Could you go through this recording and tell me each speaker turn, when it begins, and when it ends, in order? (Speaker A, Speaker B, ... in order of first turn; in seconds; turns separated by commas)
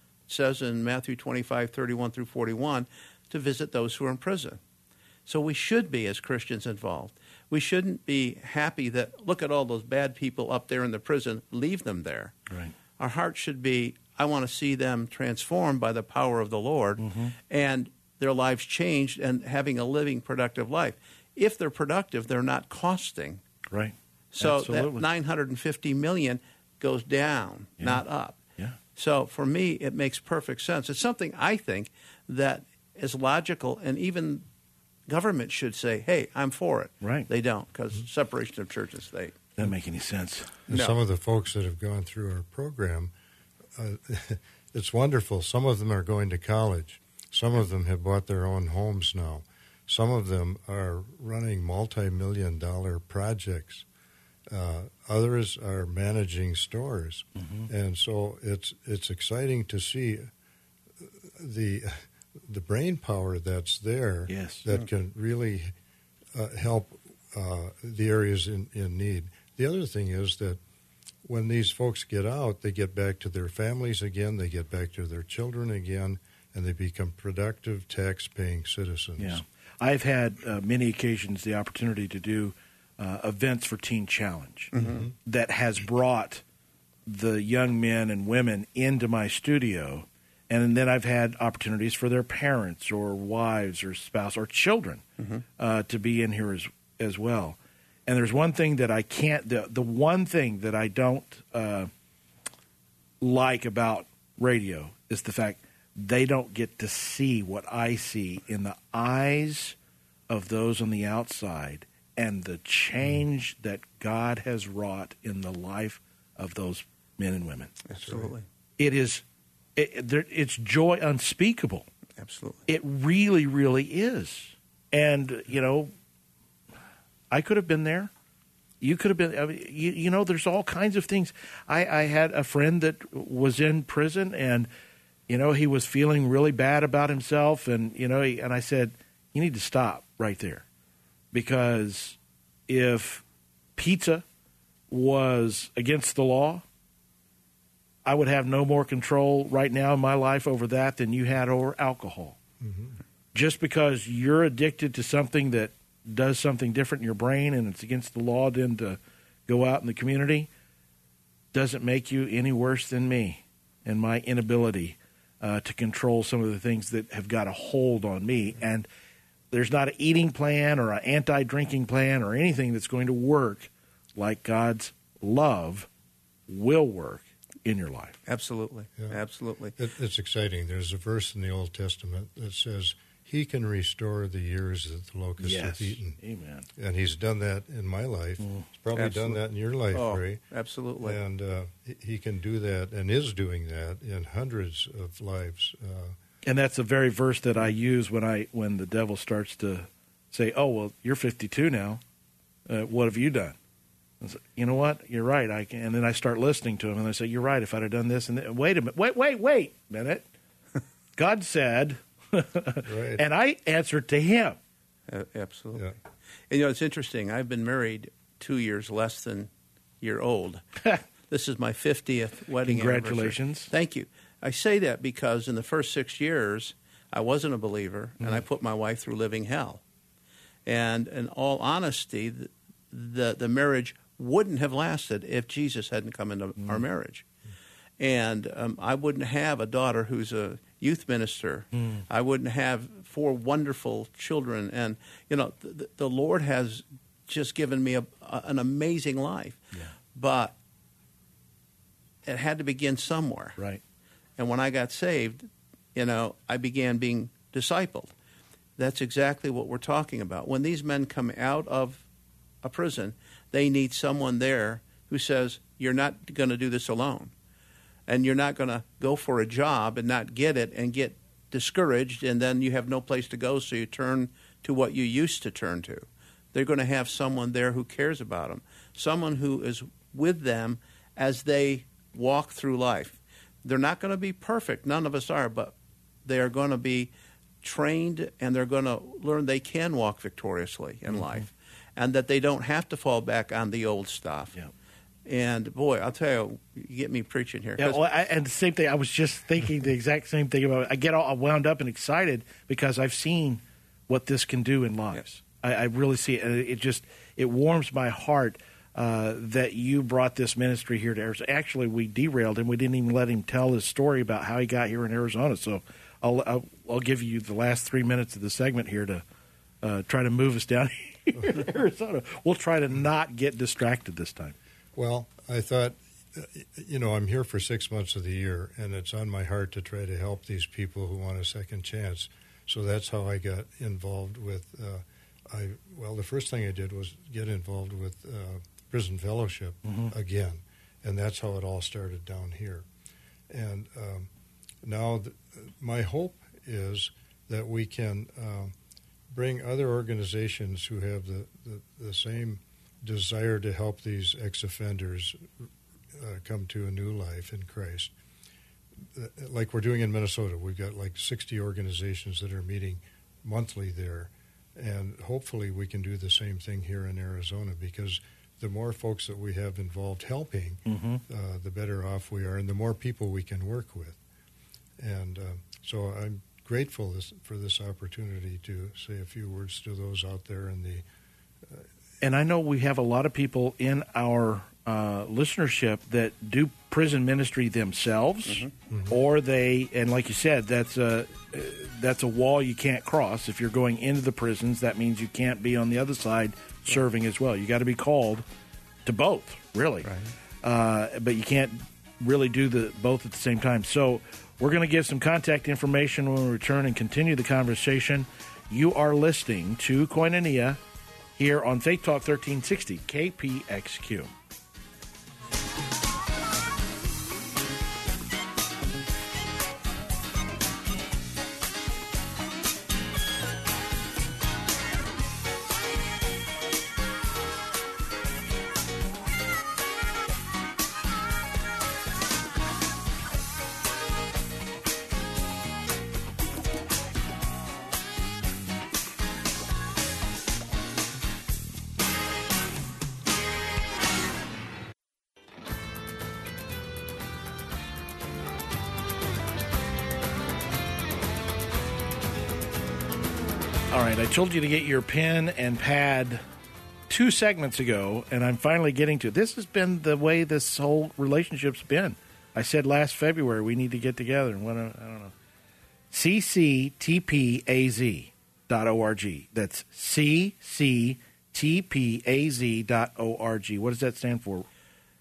Speaker A: 0.3-4.6, Speaker A: 5.3-12.4, Speaker B: 12.5-12.8, Speaker A: 13.0-23.4, Speaker B: 17.0-17.4, Speaker B: 23.7-25.1, Speaker A: 24.4-28.4, Speaker A: 29.0-34.5, Speaker A: 35.1-39.6, Speaker B: 37.0-37.3, Speaker B: 39.6-40.6, Speaker C: 40.7-43.1, Speaker A: 40.7-41.0, Speaker C: 43.8-53.9, Speaker C: 54.5-60.3, Speaker B: 57.4-57.7, Speaker C: 61.0-65.7, Speaker B: 64.3-64.7, Speaker C: 66.3-70.6, Speaker C: 71.2-79.4, Speaker B: 79.2-86.4, Speaker A: 84.7-85.0, Speaker C: 84.8-85.1, Speaker B: 87.1-95.0, Speaker A: 95.2-95.4, Speaker B: 95.6-101.9, Speaker B: 103.2-109.8, Speaker B: 110.3-117.8, Speaker A: 117.9-118.5, Speaker C: 118.0-118.3, Speaker B: 118.8-119.2, Speaker B: 119.8-121.9, Speaker A: 122.2-122.7, Speaker B: 122.7-125.9, Speaker B: 127.3-128.1, Speaker B: 128.8-134.7, Speaker B: 135.3-140.7, Speaker B: 141.3-143.2, Speaker B: 143.8-144.2, Speaker B: 144.9-146.6, Speaker B: 148.1-152.4, Speaker C: 152.6-153.0, Speaker B: 153.3-160.5, Speaker B: 161.5-168.9, Speaker B: 169.5-175.9, Speaker B: 176.5-178.2, Speaker A: 178.3-179.8, Speaker C: 179.8-186.2, Speaker B: 185.4-186.7, Speaker C: 186.8-190.4, Speaker A: 188.9-189.4, Speaker A: 189.9-191.2, Speaker C: 191.0-196.2, Speaker B: 196.4-202.0, Speaker B: 202.7-203.6, Speaker B: 204.2-210.2, Speaker B: 211.2-214.6, Speaker C: 212.9-213.2, Speaker A: 215.1-215.8, Speaker A: 216.5-219.5, Speaker A: 220.0-220.7, Speaker A: 221.3-229.8, Speaker B: 222.7-223.7, Speaker A: 230.7-237.3, Speaker A: 238.0-250.6, Speaker B: 241.8-242.0, Speaker A: 252.2-253.6, Speaker A: 254.4-258.1, Speaker A: 258.8-262.1, Speaker A: 262.6-267.3, Speaker A: 268.1-285.7, Speaker A: 286.2-294.6, Speaker A: 295.3-298.0, Speaker B: 297.8-319.2, Speaker B: 319.8-324.6, Speaker C: 324.9-342.9, Speaker B: 339.9-340.1, Speaker C: 343.5-344.3, Speaker C: 344.8-348.7, Speaker C: 349.3-355.5, Speaker C: 356.1-358.1, Speaker C: 359.1-374.2, Speaker B: 370.9-371.2, Speaker C: 375.0-381.1, Speaker B: 382.2-398.4, Speaker A: 388.5-388.7, Speaker C: 388.9-389.2, Speaker B: 399.1-400.1, Speaker A: 400.1-400.3, Speaker B: 400.6-410.8, Speaker B: 411.4-414.3, Speaker B: 453.9-456.4, Speaker B: 457.1-465.3, Speaker B: 466.1-474.7